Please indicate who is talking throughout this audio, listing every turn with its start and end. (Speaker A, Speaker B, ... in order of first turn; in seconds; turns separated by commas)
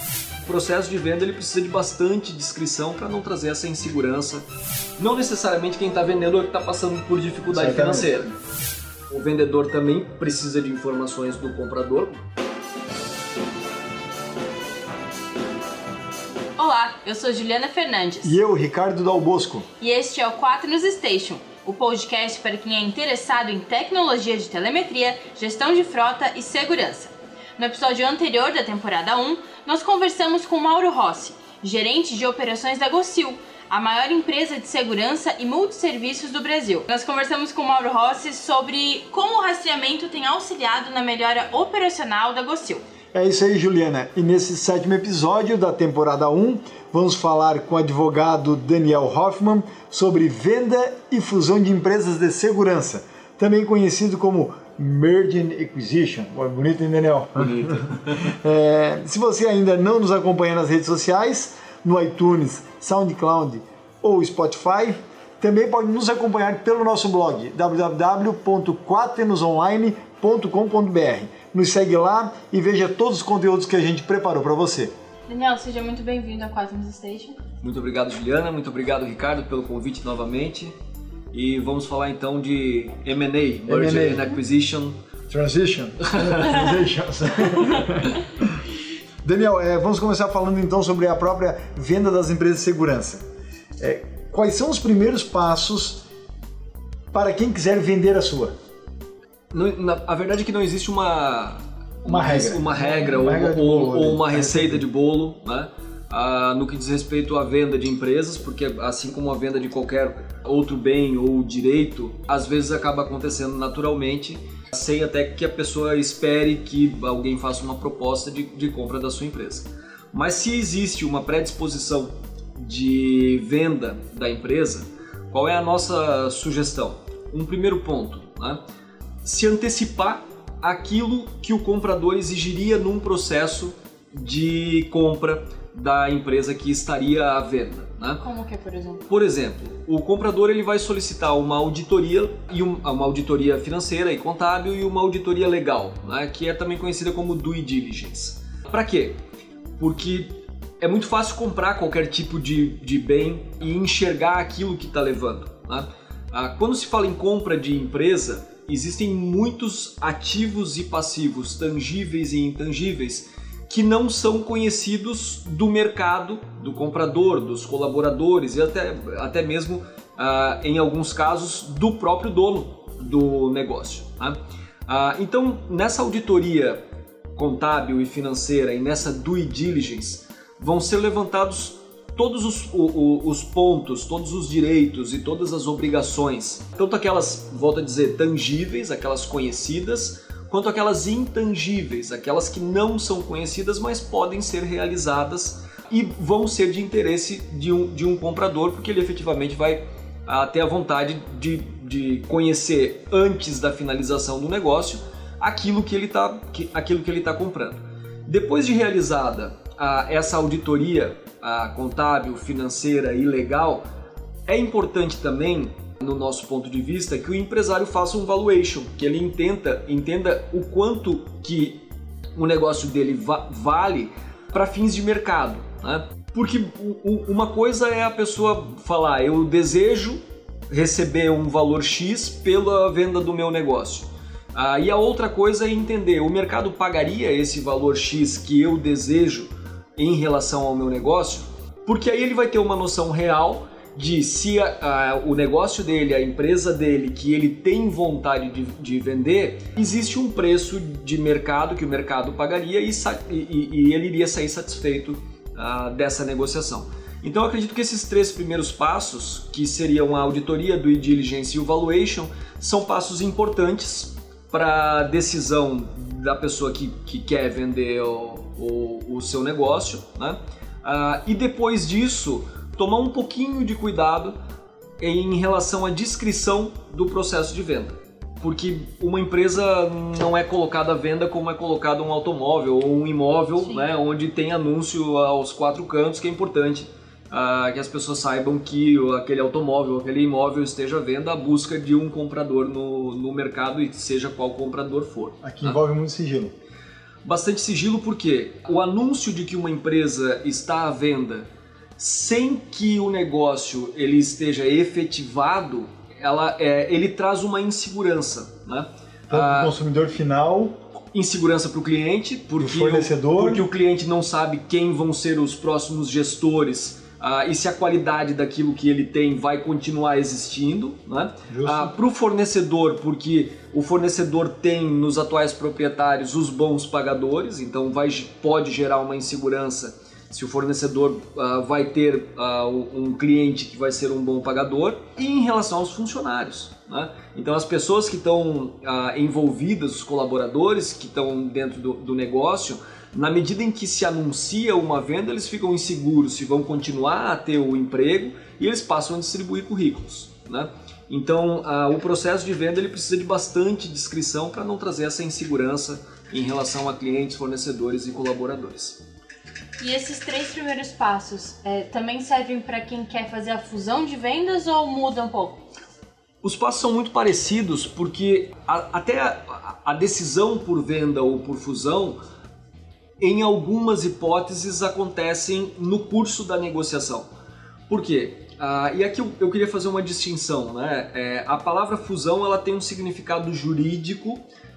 Speaker A: 0.4-4.5, Speaker A: 5.0-8.3, Speaker B: 7.5-8.1, Speaker A: 9.1-12.2, Speaker C: 16.6-18.4, Speaker B: 18.2-19.7, Speaker C: 19.8-42.8, Speaker B: 43.1-74.9, Speaker A: 57.4-58.2, Speaker C: 75.3-77.4, Speaker A: 77.6-80.7, Speaker A: 81.3-85.0, Speaker B: 83.7-84.3, Speaker B: 85.3-88.6, Speaker B: 89.2-93.2, Speaker B: 93.8-96.0, Speaker B: 97.1-98.5, Speaker A: 99.5-128.6, Speaker B: 102.1-104.9, Speaker A: 129.2-138.2, Speaker C: 138.2-139.1, Speaker A: 139.1-149.2, Speaker A: 149.8-174.4, Speaker A: 174.9-176.8, Speaker A: 177.3-213.8, Speaker A: 214.5-221.8, Speaker A: 222.4-274.4, Speaker A: 275.0-295.8, Speaker B: 295.4-296.5, Speaker A: 297.2-309.7, Speaker B: 309.3-310.8, Speaker A: 311.1-359.0, Speaker B: 312.6-313.7, Speaker B: 321.5-321.9, Speaker C: 359.8-365.6, Speaker A: 366.4-372.2, Speaker A: 373.2-377.3, Speaker A: 377.9-384.4